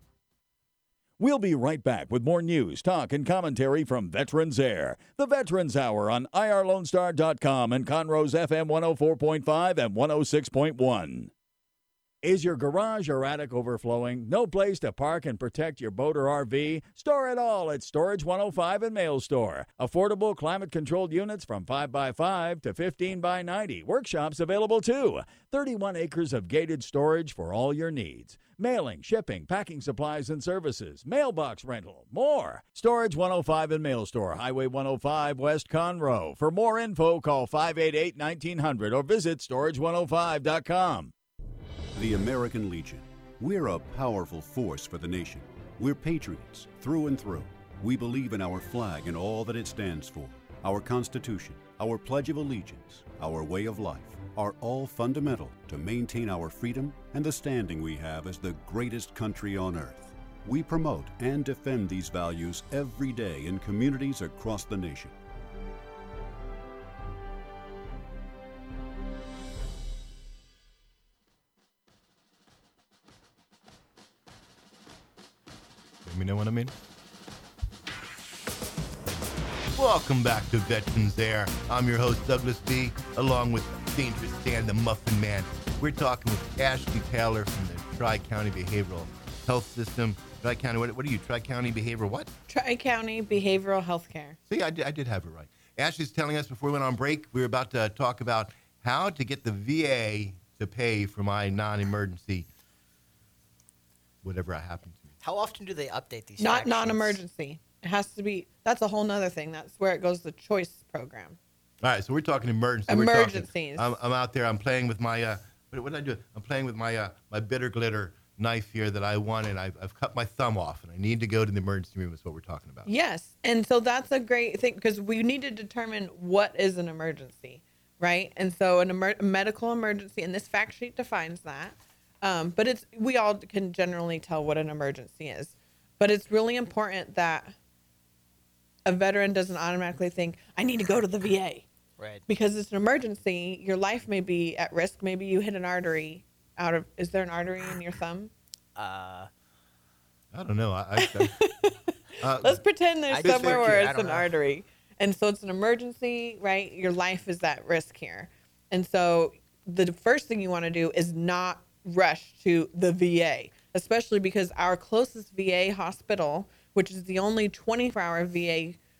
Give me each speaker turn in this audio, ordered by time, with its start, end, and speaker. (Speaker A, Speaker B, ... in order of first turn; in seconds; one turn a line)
Speaker A: 1.2-11.3
Speaker A: 12.2-41.1
Speaker B: 42.0-65.2
Speaker C: 76.0-76.7
Speaker C: 79.8-92.3
Speaker D: 92.5-94.4
Speaker C: 94.5-102.5
Speaker C: 104.2-105.1
Speaker E: 105.2-107.2
Speaker D: 106.4-111.4
Speaker C: 111.8-122.9
Speaker D: 112.9-114.0
Speaker D: 122.9-137.6
Speaker D: 138.9-141.7
Speaker E: 142.0-142.2
Speaker D: 142.3-148.3
Speaker E: 148.8-149.3
Speaker C: 150.3-151.4
Speaker D: 151.0-151.8
Speaker C: 152.2-152.6
Speaker D: 152.4-168.8
Speaker E: 153.1-154.3
Speaker C: 153.2-153.7